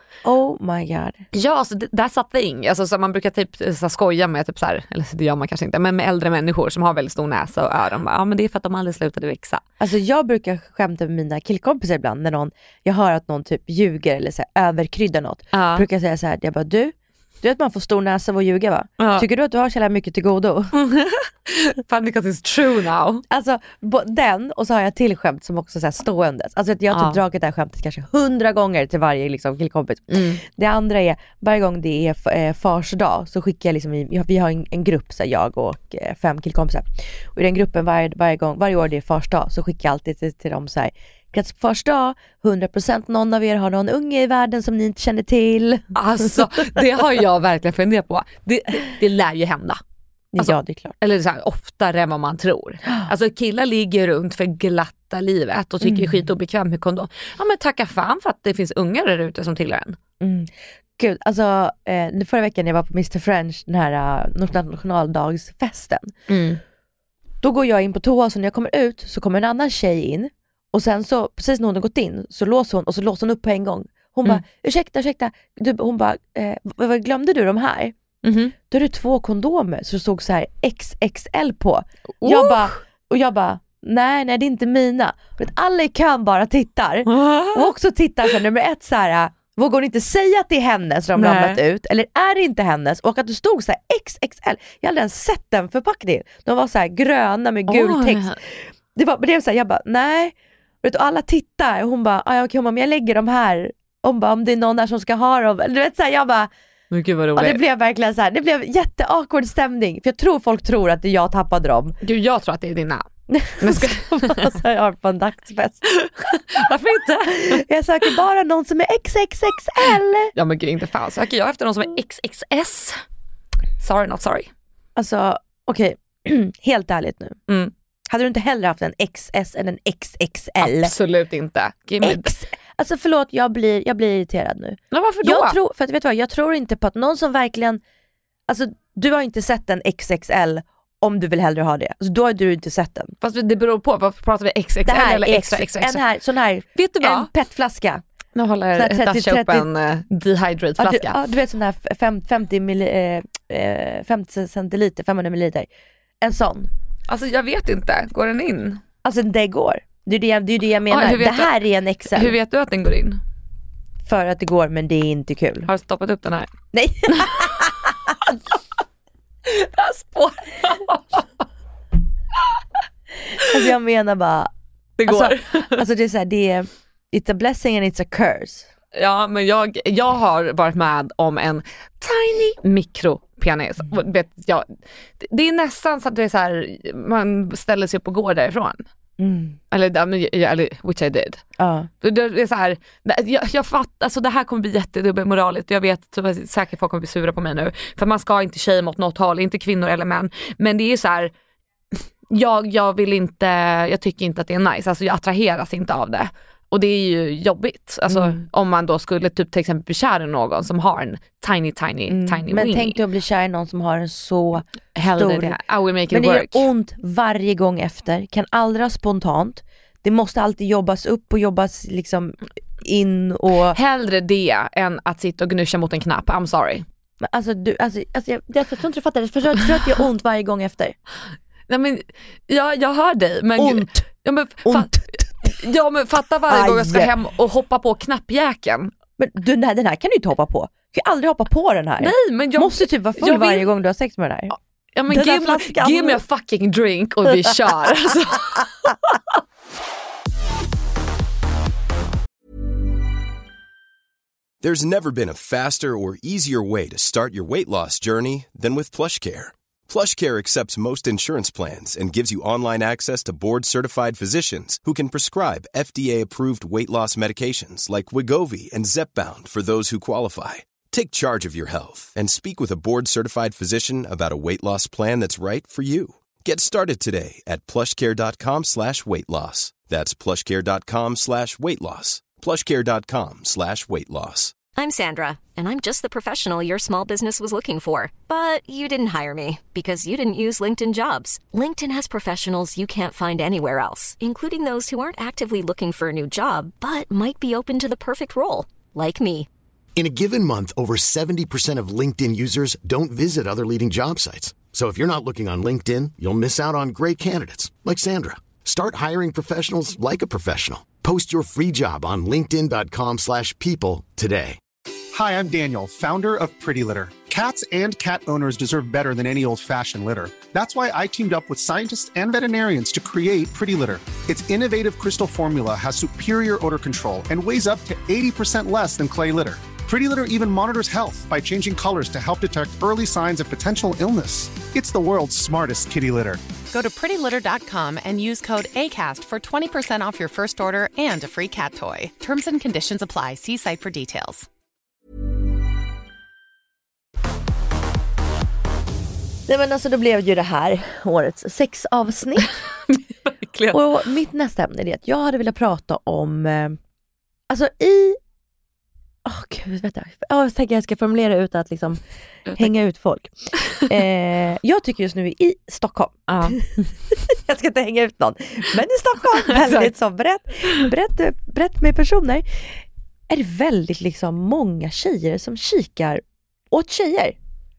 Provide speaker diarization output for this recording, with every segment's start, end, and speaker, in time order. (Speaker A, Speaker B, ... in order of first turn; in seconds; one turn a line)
Speaker A: 0.2-1.2
Speaker B: 1.3-9.6
Speaker A: 9.8-20.7
Speaker B: 15.5-15.8
Speaker B: 19.0-19.2
Speaker B: 20.7-23.2
Speaker A: 23.3-46.5
Speaker B: 26.9-27.2
Speaker B: 30.1-30.4
Speaker B: 45.9-49.8
Speaker A: 50.3-50.9
Speaker B: 50.4-60.0
Speaker A: 55.8-56.1
Speaker A: 60.2-66.1
Speaker B: 66.3-66.6
Speaker A: 67.4-77.9
Speaker B: 78.2-78.5
Speaker A: 78.6-106.5
Speaker B: 82.2-82.7
Speaker B: 87.0-87.7
Speaker B: 91.2-91.6
Speaker B: 97.7-98.4
Speaker B: 106.9-107.6
Speaker A: 107.3-112.0
Speaker B: 112.0-114.5
Speaker A: 113.3-116.6
Speaker B: 116.0-117.6
Speaker A: 117.2-120.3
Speaker B: 120.3-123.0
Speaker B: 123.8-124.5
Speaker A: 125.0-127.4
Speaker A: 128.1-130.9
Speaker B: 130.6-132.3
Speaker A: 132.0-137.8
Speaker B: 134.9-135.6
Speaker A: 138.5-143.1
Speaker B: 143.2-146.0
Speaker A: 144.8-148.0
Speaker B: 146.7-147.3
Speaker B: 148.3-151.2
Speaker A: 148.7-149.7
Speaker A: 150.8-155.7
Speaker A: 156.2-156.7
Speaker B: 157.1-158.8
Speaker A: 159.0-162.3
Speaker B: 160.9-161.5
Speaker B: 162.1-163.2
Speaker A: 164.0-165.7
Speaker B: 165.7-166.5
Speaker A: 166.7-168.1
Speaker B: 167.1-167.7
Speaker B: 168.2-168.6
Speaker B: 169.4-171.3
Speaker A: 173.4-174.5
Speaker B: 175.0-175.8
Speaker A: 175.0-178.7
Speaker B: 178.9-188.8
Speaker A: 189.2-189.6
Speaker B: 189.7-191.4
Speaker A: 191.6-191.9
Speaker B: 192.0-201.3
Speaker B: 202.3-213.0
Speaker A: 208.1-208.4
Speaker A: 212.1-223.8
Speaker B: 214.9-216.7
Speaker B: 223.7-226.8
Speaker A: 227.2-230.9
Speaker B: 231.7-238.9
Speaker A: 233.6-234.1
Speaker A: 234.6-235.5
Speaker A: 236.5-237.1
Speaker A: 239.2-244.5
Speaker B: 242.0-243.7
Speaker B: 244.5-248.9
Speaker A: 245.1-246.2
Speaker C: 254.6-284.5
Speaker D: 284.8-299.5
Speaker E: 300.0-314.6
Speaker F: 315.1-336.4
Speaker G: 336.7-344.5
Speaker A: 349.5-352.5
Speaker B: 352.9-353.8
Speaker A: 353.7-356.8
Speaker A: 357.5-358.2
Speaker A: 359.2-362.0
Speaker B: 362.4-362.7
Speaker A: 362.6-377.4
Speaker B: 366.3-366.6
Speaker B: 369.5-369.9